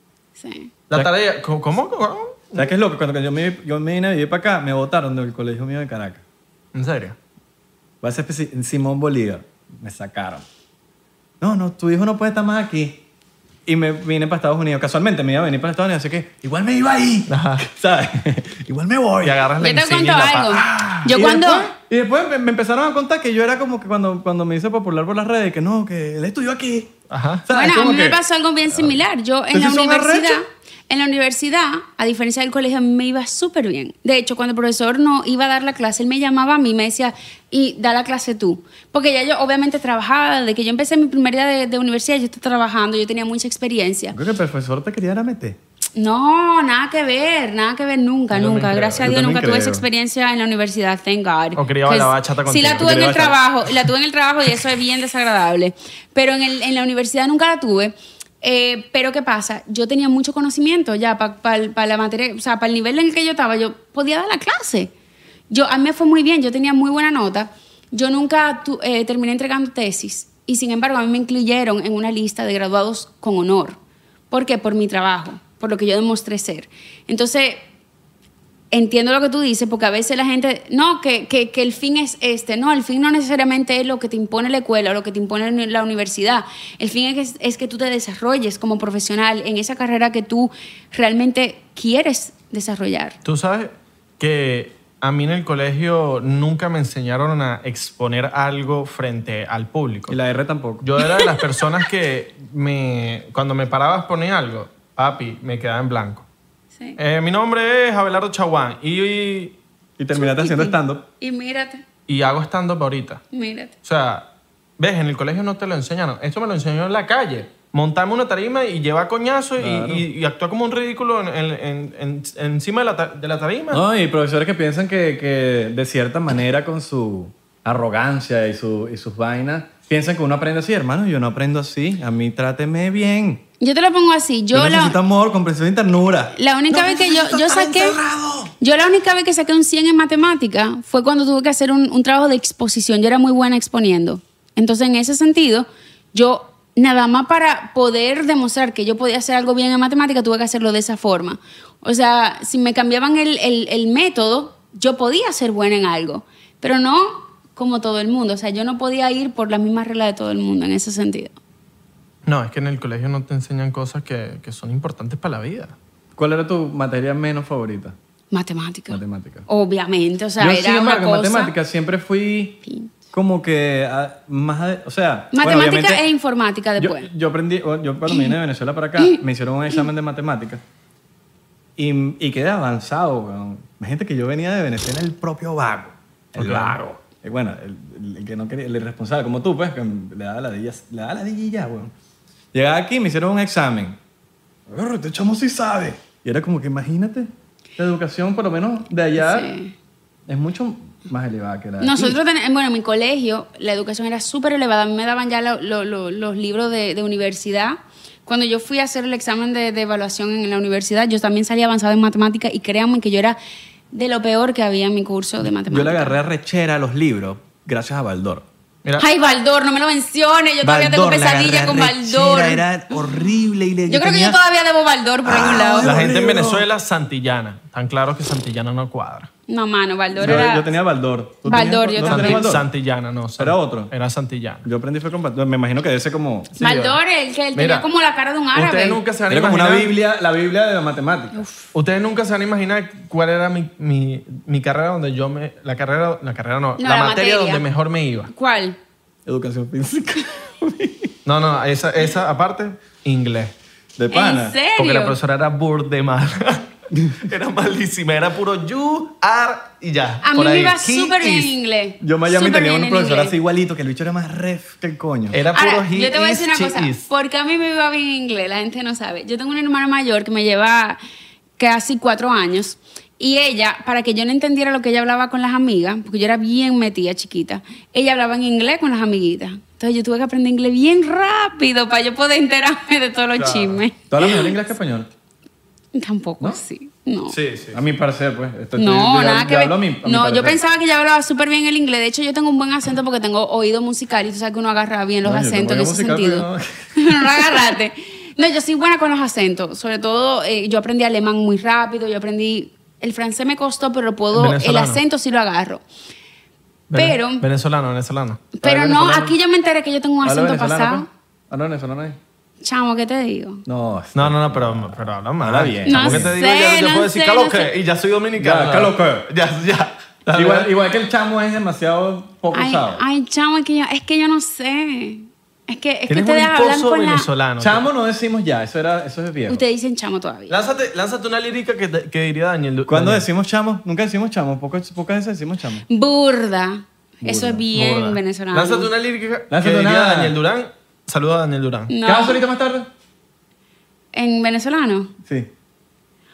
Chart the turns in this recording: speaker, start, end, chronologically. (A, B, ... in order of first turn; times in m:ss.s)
0:00.4-0:00.7 A
0:00.9-0:02.7 B
0:02.6-0:06.2 C
0:06.7-0:07.2 B
0:08.0-0:10.4 C
0:11.4-0:13.0 C
0:13.7-0:19.5 C
0:17.3-0:17.7 B
0:19.2-0:20.9 B
0:19.6-0:21.7 A
0:20.7-0:26.9 C
0:27.1-0:27.5 B
0:27.5-0:28.2 C
0:27.5-0:44.2 A
0:29.5-0:30.4 C
0:44.1-0:45.6 C
0:46.0-1:04.9 A
0:48.3-0:49.2 B
0:49.0-0:49.8 C
0:51.6-0:53.2 B
0:52.8-0:53.4 C
1:05.5-1:13.8 A
1:14.3-1:17.6 A
1:18.7-1:33.2 A
1:33.2-1:40.2 B
1:40.1-1:40.9 C
1:40.8-1:46.3 B
1:41.0-1:41.3 A
1:47.0-1:49.6 B
1:50.0-1:51.1 C
1:50.1-1:51.8 A
1:52.1-1:53.2 B
1:53.3-1:53.7 A
1:53.8-1:54.3 B
1:54.8-2:03.8 B
1:59.6-2:00.0 C
2:03.7-2:13.4 C
2:13.6-2:15.0 A
2:14.5-2:18.5 C
2:16.4-2:18.0 A
2:18.6-2:41.4 A
2:42.2-2:45.8 B
2:46.2-2:48.0 C
2:48.3-2:51.5 A
2:48.9-2:49.5 C
2:50.4-2:52.6 C
2:52.7-2:52.9 A
2:53.1-2:56.0 C
2:55.3-2:57.1 A
2:56.8-3:00.6 C
2:58.1-2:58.4 A
3:01.8-3:11.9 C
3:06.4-3:06.8 B
3:12.5-3:14.0 C
3:14.7-3:19.5 C
3:19.2-3:19.7 A
3:20.3-3:22.2 C
3:21.8-3:33.4 A
3:33.9-3:36.2 A
3:35.5-3:38.5 C
3:39.0-3:43.0 A
3:40.6-3:44.4 C
3:43.9-3:45.9 A
3:45.2-3:46.6 C
3:45.8-3:49.3 B
3:49.5-3:50.8 A
3:50.2-3:52.7 C
3:51.4-3:52.5 A
3:52.0-3:54.7 B
3:53.4-3:53.9 C
3:54.6-3:56.5 C
3:56.5-3:57.0 B
3:56.6-3:59.0 A
3:57.5-3:57.9 B
3:58.5-4:00.0 B
3:59.3-4:01.4 C
4:01.3-4:01.7 A
4:01.8-4:08.3 B
4:06.8-4:07.6 A
4:08.3-4:08.8 A
4:09.3-4:11.1 C
4:11.3-4:13.5 B
4:14.0-4:14.6 C
4:14.1-4:15.2 A
4:14.8-4:16.7 B
4:16.9-4:17.2 C
4:17.2-4:21.5 B
4:20.2-4:23.3 A
4:22.0-4:25.4 C
4:25.3-4:27.1 B
4:25.5-4:31.0 A
4:31.6-4:44.5 A
4:43.4-4:43.8 B
4:44.1-4:45.1 C
4:46.0-4:47.4 A
4:47.3-4:47.8 B
4:47.7-4:50.6 C
4:48.8-5:05.8 A
4:55.2-4:57.6 C
5:04.3-5:05.0 B
5:06.9-5:08.5 B
5:06.9-5:07.4 A
5:08.6-5:11.1 A
5:08.6-5:09.4 C
5:10.2-5:12.2 C
5:12.6-5:13.6 A
5:13.7-5:16.3 C
5:14.2-5:20.7 B
5:15.9-5:17.7 A
5:18.4-5:19.3 C
5:20.3-5:23.0 C
5:22.5-5:27.3 A
5:26.1-5:27.9 B
5:27.6-5:29.6 C
5:29.5-5:30.6 A
5:30.5-5:33.3 B
5:32.9-5:35.9 C
5:35.9-5:38.9 A
5:37.2-5:37.6 C
5:37.7-5:41.9 B
5:39.5-5:40.4 C
5:41.9-5:42.4 A
5:42.0-5:42.9 C
5:44.1-5:45.1 A
5:45.2-5:45.5 C